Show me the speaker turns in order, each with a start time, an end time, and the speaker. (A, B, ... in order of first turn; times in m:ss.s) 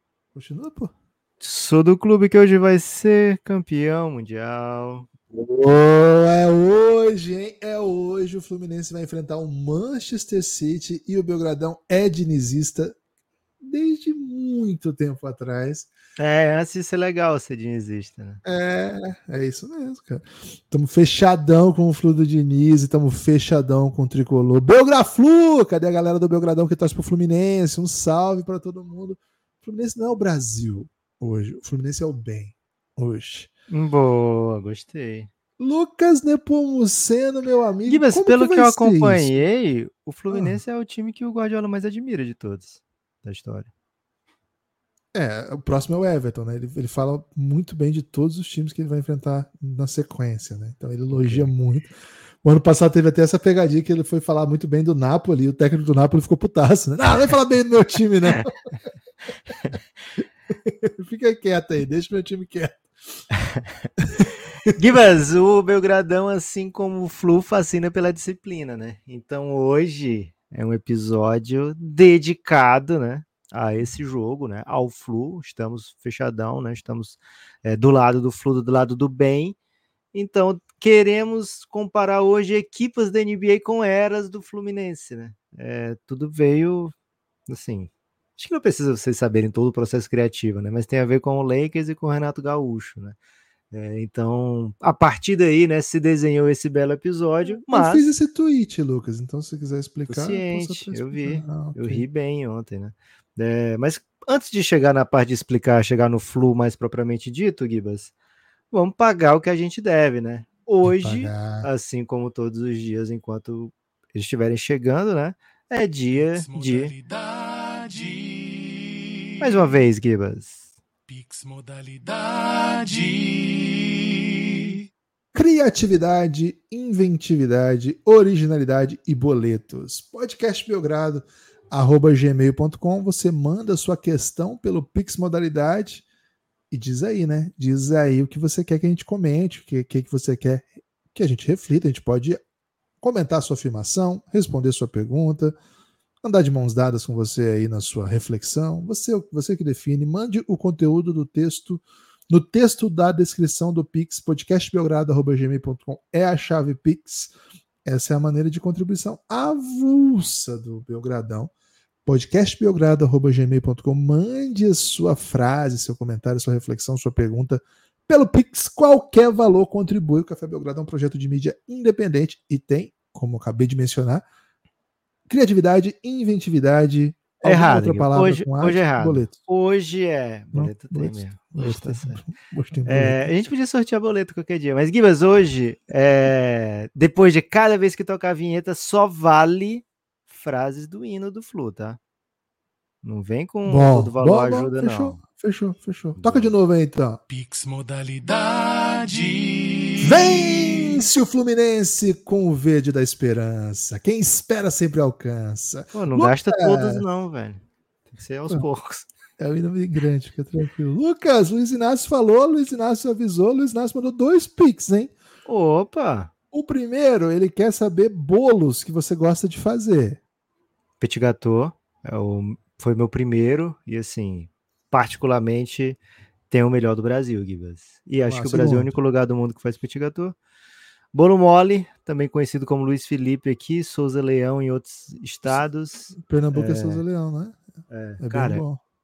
0:00.3-0:00.9 A
0:01.4-0:05.1 B
0:05.3-0:13.0 A
0:13.6-0:15.9 A
0:16.2-0:18.4 B
0:18.4-0:33.5 A
0:33.7-0:35.3 B
0:35.6-0:39.4 A
0:37.8-0:43.7 B
0:40.3-0:40.6 A
0:45.1-0:58.5 A
0:51.1-0:51.5 B
1:00.6-1:02.9 A
1:04.0-1:04.3 A
1:04.6-1:19.6 B
1:20.1-1:26.9 B
1:27.5-1:33.2 B
1:33.7-1:38.0 B
1:37.7-1:42.0 A
1:40.1-1:48.1 B
1:48.7-1:56.9 B
1:50.8-1:51.7 A
1:56.3-1:59.7 C
1:59.4-2:00.7 B
2:01.1-2:04.9 C
2:05.3-2:16.0 A
2:16.7-2:22.4 A
2:23.0-2:25.6 A
2:26.2-2:37.3 A
2:37.8-2:41.5 A
2:42.0-2:54.2 A
2:55.3-2:59.4 A
2:57.4-3:02.2 B
3:00.5-3:03.2 A
3:02.8-3:12.0 B
3:13.0-3:15.2 B
3:13.6-3:17.2 A
3:16.2-3:16.5 B
3:17.3-3:21.0 C
3:20.0-3:27.0 A
3:25.9-3:29.1 B
3:29.4-3:35.1 A
3:35.4-3:36.3 B
3:36.5-3:40.2 A
3:41.0-3:46.0 B
3:46.5-3:50.4 B
3:48.2-3:48.9 A
3:51.1-3:57.0 B
3:56.1-3:57.6 A
3:57.9-3:58.6 B
3:58.2-3:58.8 A